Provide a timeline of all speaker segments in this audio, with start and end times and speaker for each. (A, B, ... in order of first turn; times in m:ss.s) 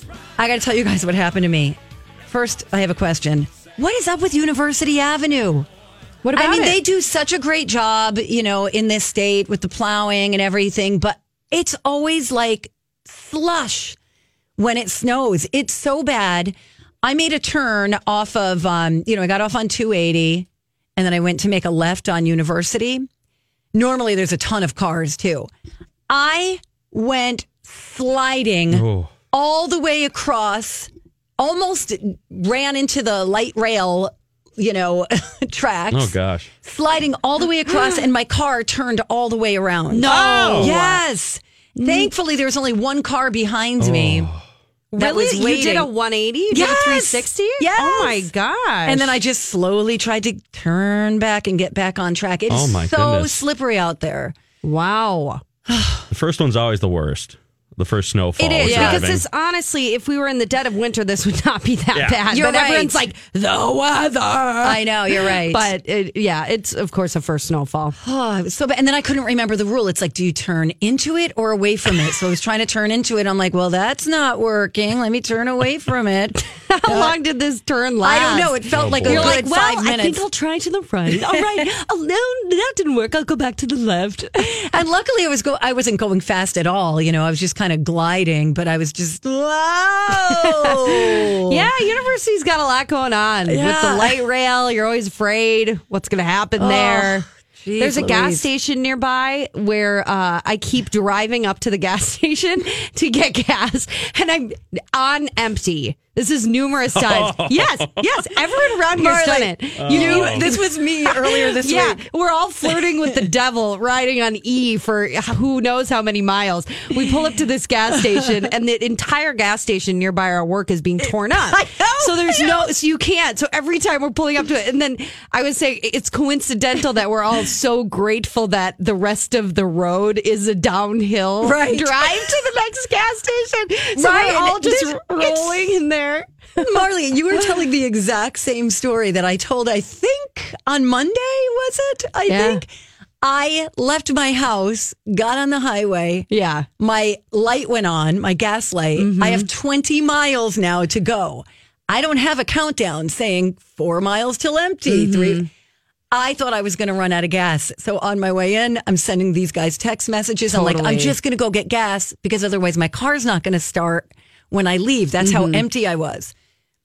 0:00.4-0:05.7 A
0:06.2-0:06.8 B
0:06.3-0:14.0 A
0:14.6-0:23.1 A
0:23.7-0:25.5 A
0:26.1-0:44.3 A
0:28.7-0:29.1 C
0:35.9-0:36.5 C
0:37.7-0:38.1 B
0:39.9-0:41.0 B
0:40.1-0:40.8 C
0:41.8-0:42.1 B
0:43.8-0:44.4 C
0:44.9-0:45.9 A
0:45.0-0:49.2 B
0:46.5-0:48.3 A
0:48.9-0:54.4 A
0:52.5-0:53.4 C
0:54.6-0:55.4 B
0:55.7-0:56.1 A
0:56.1-0:59.2 C
0:58.4-1:08.0 B
0:58.6-0:59.1 A
1:01.9-1:02.2 C
1:02.3-1:03.1 A
1:04.6-1:05.7 A
1:08.0-1:17.2 A
1:16.7-1:24.5 B
1:18.0-1:20.2 A
1:18.8-1:19.4 C
1:24.4-1:31.7 A
1:30.1-2:16.6 B
1:33.5-1:34.2 A
1:36.6-1:38.5 A
1:46.9-1:48.1 C
1:48.9-1:52.0 A
1:49.8-1:50.5 C
2:01.5-2:02.6 A
2:11.4-2:12.4 A
2:14.0-2:15.7 A
2:16.6-2:22.6 A
2:22.3-2:22.6 B
2:23.2-2:26.3 A
2:26.3-2:26.7 B
2:26.8-2:35.5 A
2:29.0-2:29.5 B
2:34.9-2:35.5 B
2:36.1-2:46.3 A
2:40.5-2:41.2 B
2:45.2-2:45.6 B